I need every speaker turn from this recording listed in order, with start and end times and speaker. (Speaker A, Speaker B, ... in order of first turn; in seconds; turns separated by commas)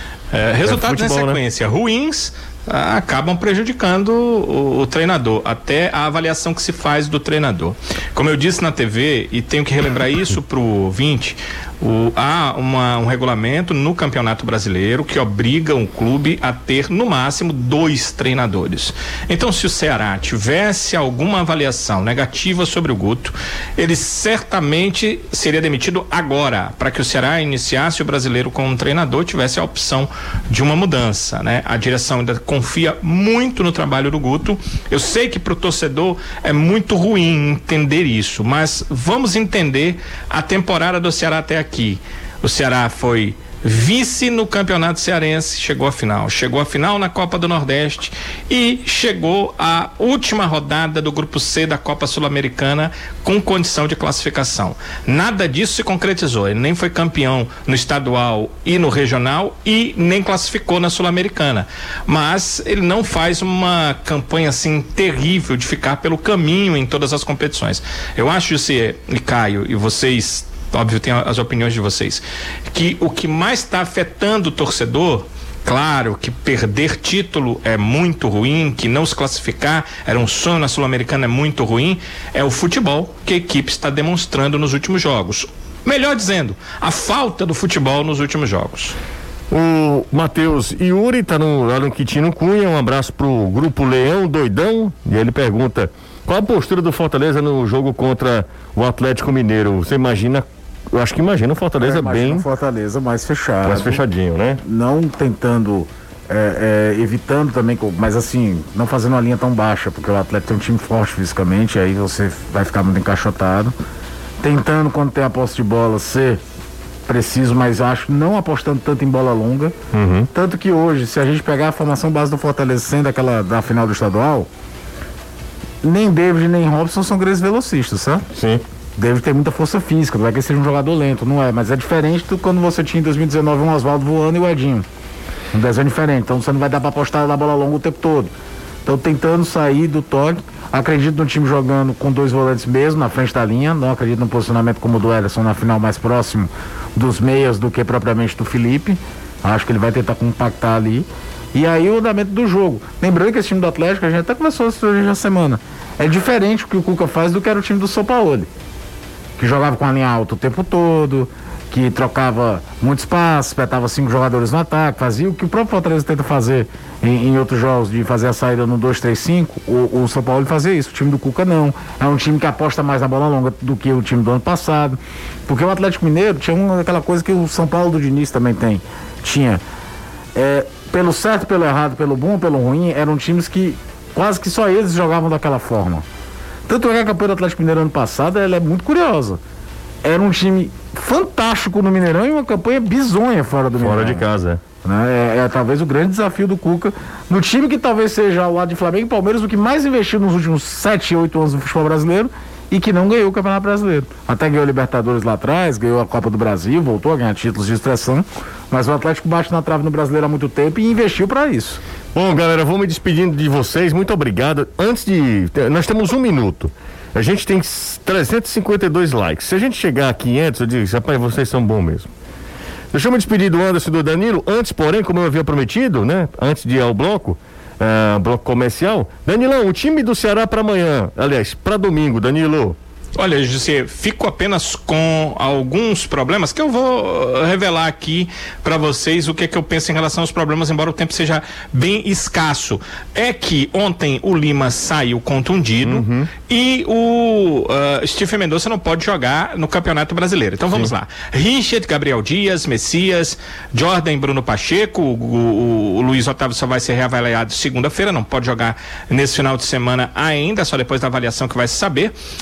Speaker A: 0.3-89.0, Speaker B: 0.6-1.4, Speaker B: 89.5-102.5, Speaker C: 101.8-104.0, Speaker B: 103.6-104.6, Speaker C: 104.6-113.7, Speaker C: 114.4-116.4, Speaker C: 117.1-119.8, Speaker B: 119.9-120.3, Speaker C: 120.3-124.5, Speaker C: 125.8-128.2, Speaker B: 128.3-128.6, Speaker C: 128.9-134.9, Speaker C: 135.5-138.3, Speaker C: 138.8-158.5, Speaker C: 159.4-179.6, Speaker C: 180.3-186.0, Speaker C: 186.7-189.4, Speaker C: 190.0-194.2, Speaker B: 193.8-194.6, Speaker C: 194.8-211.8, Speaker B: 212.1-222.1, Speaker B: 222.9-232.8, Speaker A: 233.2-262.1, Speaker B: 245.8-246.3